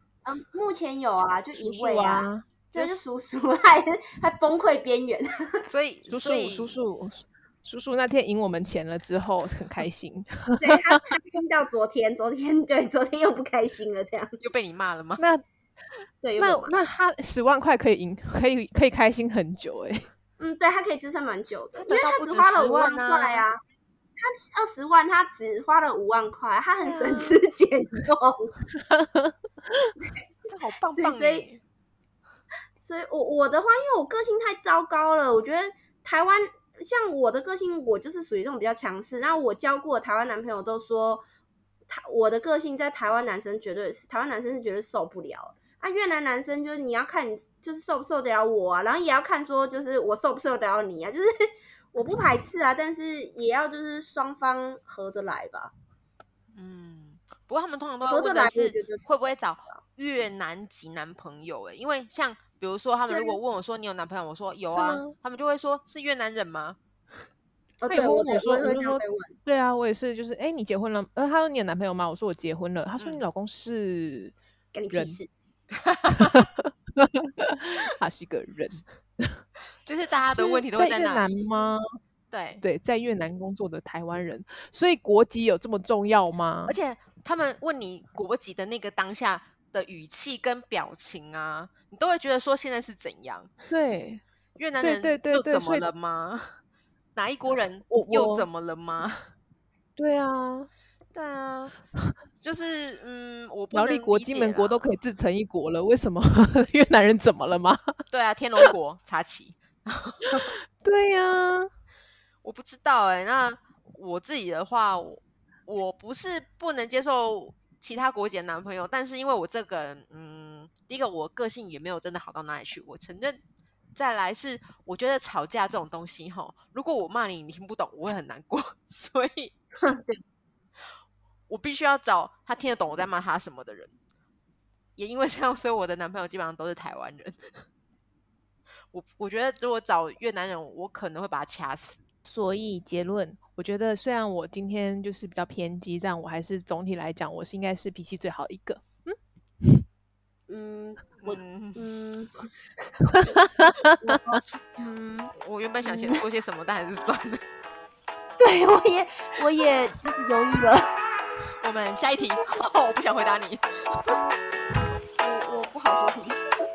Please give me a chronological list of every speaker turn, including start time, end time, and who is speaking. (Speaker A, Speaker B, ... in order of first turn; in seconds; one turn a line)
Speaker A: 0.2-5.6
Speaker B: 1.6-2.5
Speaker C: 2.7-3.0
Speaker C: 5.7-6.8
Speaker B: 6.1-10.8
Speaker A: 10.6-14.4
Speaker C: 14.4-15.2
Speaker A: 16.2-16.8
Speaker B: 16.4-20.1
Speaker A: 20.4-23.6
Speaker C: 21.7-23.4
Speaker A: 24.2-28.5
Speaker C: 26.8-27.4
Speaker B: 28.8-29.3
Speaker C: 30.5-31.6
Speaker A: 31.0-31.5
Speaker A: 32.8-41.2
Speaker A: 41.9-51.3
Speaker A: 51.9-55.7
Speaker C: 56.5-66.8
Speaker A: 58.0-59.0
Speaker A: 63.1-63.4
Speaker B: 64.7-65.1
Speaker A: 67.8-69.4
Speaker B: 67.9-74.3
Speaker C: 73.0-73.2
Speaker A: 74.7-75.3
Speaker B: 74.9-75.2
Speaker C: 75.7-76.4
Speaker B: 76.1-78.8
Speaker C: 79.8-81.4
Speaker B: 80.3-81.8
Speaker C: 82.3-82.6
Speaker B: 82.6-86.8
Speaker C: 86.7-93.5
Speaker B: 93.7-94.2
Speaker C: 94.6-96.4
Speaker B: 94.8-95.9
Speaker C: 97.2-99.2
Speaker B: 97.9-98.5
Speaker B: 100.0-100.7
Speaker C: 101.1-101.8
Speaker C: 102.4-104.9
Speaker B: 103.7-108.0
Speaker C: 108.1-110.5
Speaker B: 110.3-111.7
Speaker C: 112.4-123.4
Speaker C: 124.0-129.5
Speaker A: 129.8-130.2
Speaker C: 131.5-133.9
Speaker C: 135.0-137.4
Speaker C: 138.9-142.0
Speaker B: 142.3-149.8
Speaker A: 150.5-152.5
Speaker C: 151.2-151.8
Speaker B: 153.2-153.9
Speaker A: 154.0-155.3
Speaker C: 155.3-157.4
Speaker B: 155.8-156.1
Speaker A: 158.4-160.9
Speaker C: 161.6-164.2
Speaker A: 165.2-166.5